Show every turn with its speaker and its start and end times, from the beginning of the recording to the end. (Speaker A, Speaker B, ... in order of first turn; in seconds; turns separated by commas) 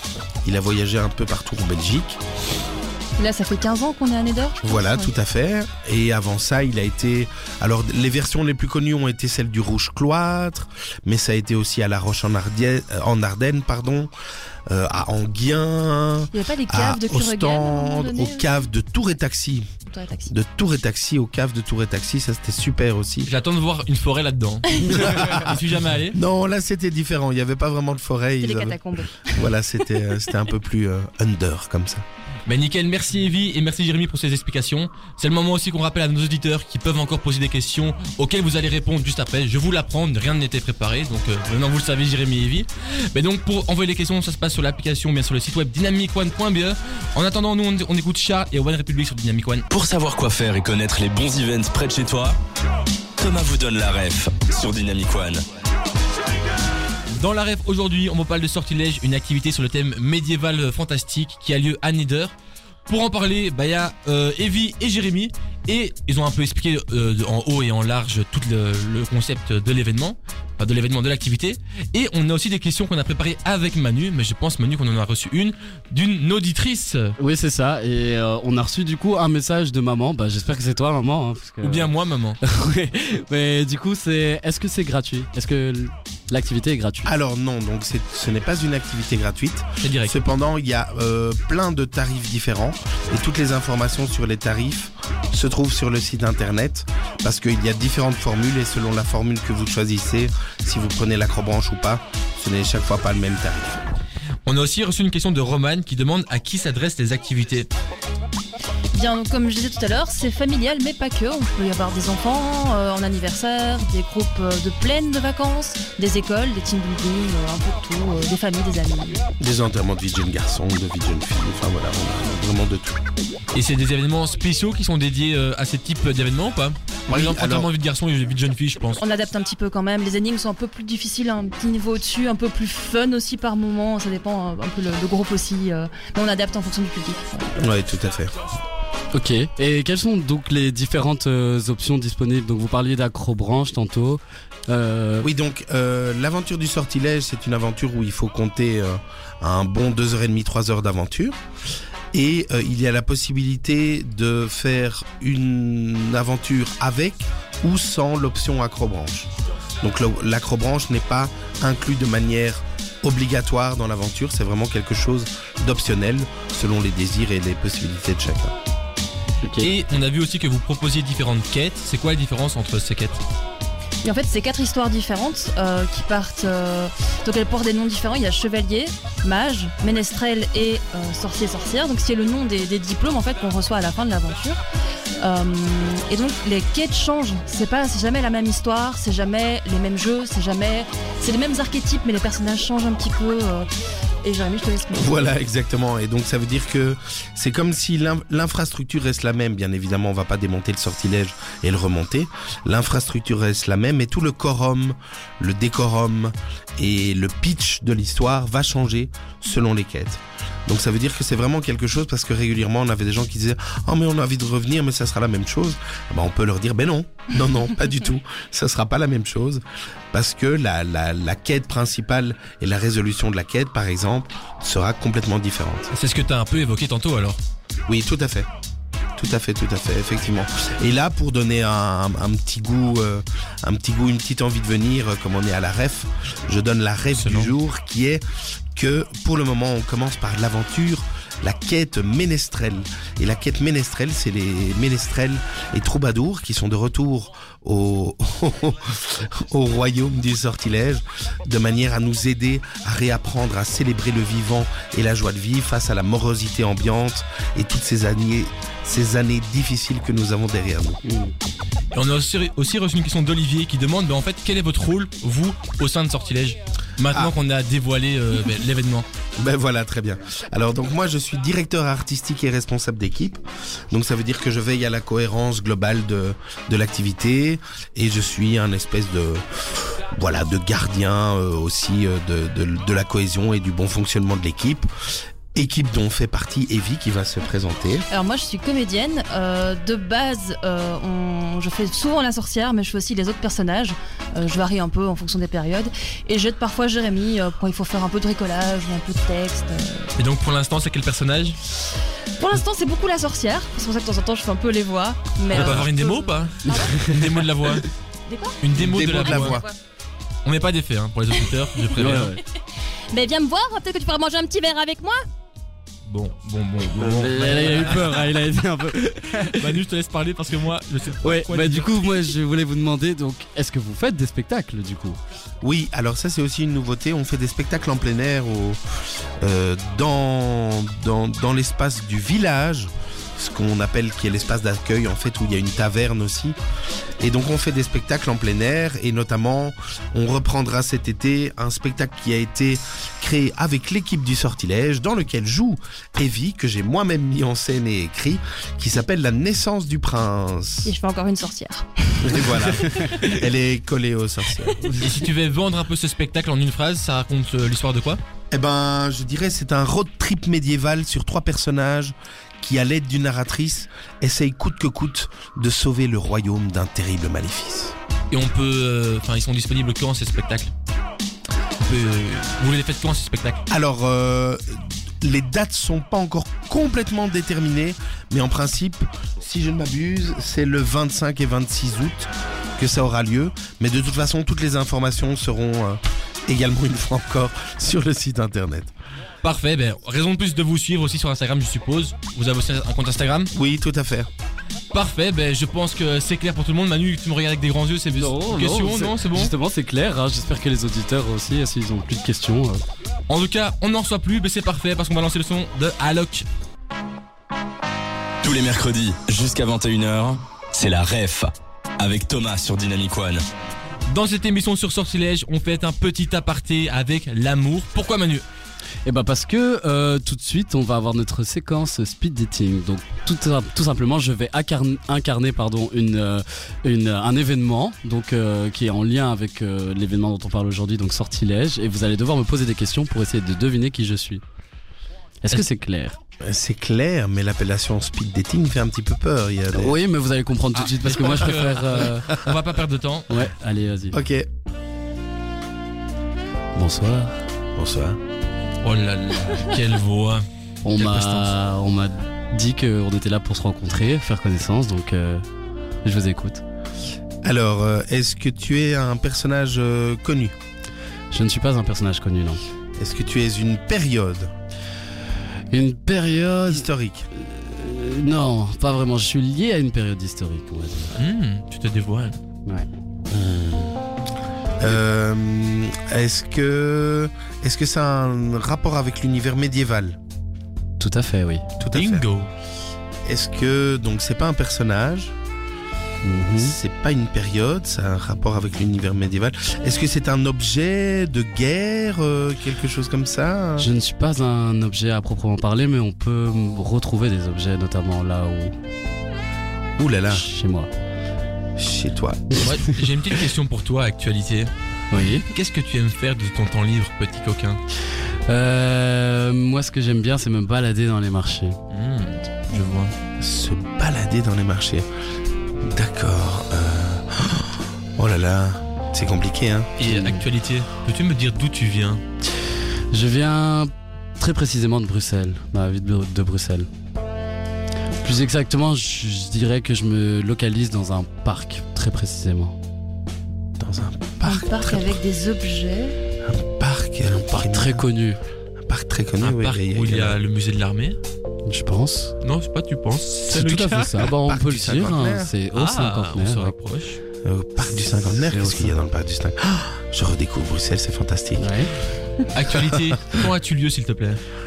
Speaker A: 0.4-2.2, Speaker B: 3.2-5.1, Speaker A: 4.6-14.1, Speaker A: 14.7-19.7, Speaker B: 16.3-18.5, Speaker B: 19.9-20.3, Speaker A: 20.3-23.3, Speaker C: 23.2-26.2, Speaker A: 24.9-25.6, Speaker A: 26.1-32.0, Speaker B: 28.4-29.5, Speaker C: 32.5-49.6, Speaker D: 49.7-52.4, Speaker D: 53.2-55.4, Speaker C: 57.1-62.3, Speaker C: 62.9-77.1, Speaker E: 77.2-87.1, Speaker C: 81.6-82.4, Speaker A: 87.0-103.8, Speaker C: 89.8-90.2, Speaker C: 104.5-107.7, Speaker B: 108.9-119.2, Speaker A: 119.4-123.0, Speaker C: 123.5-129.0, Speaker A: 127.1-127.7, Speaker B: 129.0-137.6, Speaker A: 137.6-138.3, Speaker E: 139.1-145.3, Speaker A: 145.2-151.4, Speaker A: 152.1-159.3, Speaker A: 159.8-168.5, Speaker E: 169.4-169.7, Speaker C: 169.6-173.2, Speaker B: 174.0-184.6, Speaker B: 185.2-193.7, Speaker B: 194.2-195.1, Speaker A: 194.9-225.9, Speaker C: 225.9-227.4, Speaker A: 227.9-228.5, Speaker A: 229.2-238.2, Speaker C: 237.1-237.5, Speaker A: 238.7-261.0, Speaker E: 261.0-261.3, Speaker C: 261.9-269.1, Speaker A: 269.4-284.9, Speaker A: 285.5-288.1, Speaker B: 288.1-300.1, Speaker C: 300.1-301.6, Speaker B: 302.4-307.1, Speaker C: 305.5-307.9, Speaker E: 306.8-307.3, Speaker B: 308.3-308.6, Speaker C: 308.6-309.6, Speaker A: 308.8-309.7, Speaker B: 309.2-309.8, Speaker C: 310.4-312.4, Speaker E: 311.9-312.4, Speaker B: 313.1-315.2, Speaker C: 316.1-318.2, Speaker E: 317.0-319.8, Speaker C: 319.4-322.1, Speaker E: 321.2-325.2, Speaker A: 325.6-328.8, Speaker A: 329.4-336.6, Speaker A: 337.2-350.9, Speaker B: 350.9-353.1, Speaker A: 352.2-355.0, Speaker C: 354.9-358.2, Speaker A: 358.5-367.9, Speaker C: 368.3-370.7, Speaker C: 371.9-373.6, Speaker A: 373.7-388.9, Speaker C: 389.4-393.5, Speaker A: 393.5-394.3, Speaker C: 394.9-399.5, Speaker E: 398.1-402.8, Speaker C: 403.3-406.5, Speaker D: 408.4-413.4, Speaker C: 414.1-418.4, Speaker E: 419.0-434.4, Speaker E: 435.4-436.2, Speaker A: 436.4-440.0, Speaker E: 439.7-442.3, Speaker C: 440.7-443.5, Speaker E: 443.3-444.2, Speaker A: 444.1-444.5, Speaker E: 446.8-447.4, Speaker A: 447.8-448.2, Speaker C: 448.8-450.4, Speaker E: 450.8-455.4, Speaker C: 451.0-451.5, Speaker E: 456.0-456.6, Speaker A: 457.4-460.5, Speaker E: 461.3-462.6, Speaker A: 463.0-464.5, Speaker E: 465.7-471.2, Speaker A: 466.7-467.3, Speaker C: 471.2-472.4, Speaker A: 473.3-474.0, Speaker A: 474.8-480.2, Speaker E: 481.0-481.7, Speaker A: 481.8-482.2, Speaker C: 481.9-482.5, Speaker A: 483.2-485.3, Speaker E: 486.2-486.8, Speaker A: 486.6-493.9, Speaker E: 493.8-498.8, Speaker A: 500.0-500.5, Speaker E: 500.3-500.9, Speaker A: 501.8-502.6, Speaker C: 502.6-504.7, Speaker E: 505.1-505.5, Speaker C: 505.4-507.8, Speaker E: 508.5-511.8, Speaker C: 511.9-513.1, Speaker A: 513.4-515.0, Speaker A: 515.8-519.9, Speaker C: 520.0-522.2, Speaker E: 520.0-520.5, Speaker E: 523.1-526.9, Speaker E: 528.2-532.8, Speaker A: 533.8-535.2, Speaker B: 534.4-536.2, Speaker A: 536.4-538.0, Speaker E: 537.3-538.4, Speaker A: 538.8-540.4, Speaker C: 539.4-541.2, Speaker E: 541.7-542.3, Speaker C: 542.4-544.3, Speaker E: 543.5-546.8, Speaker A: 544.2-545.5, Speaker C: 545.7-547.2, Speaker A: 547.4-551.7, Speaker E: 548.2-549.0, Speaker E: 551.6-551.9, Speaker C: 552.5-554.4, Speaker A: 552.7-553.2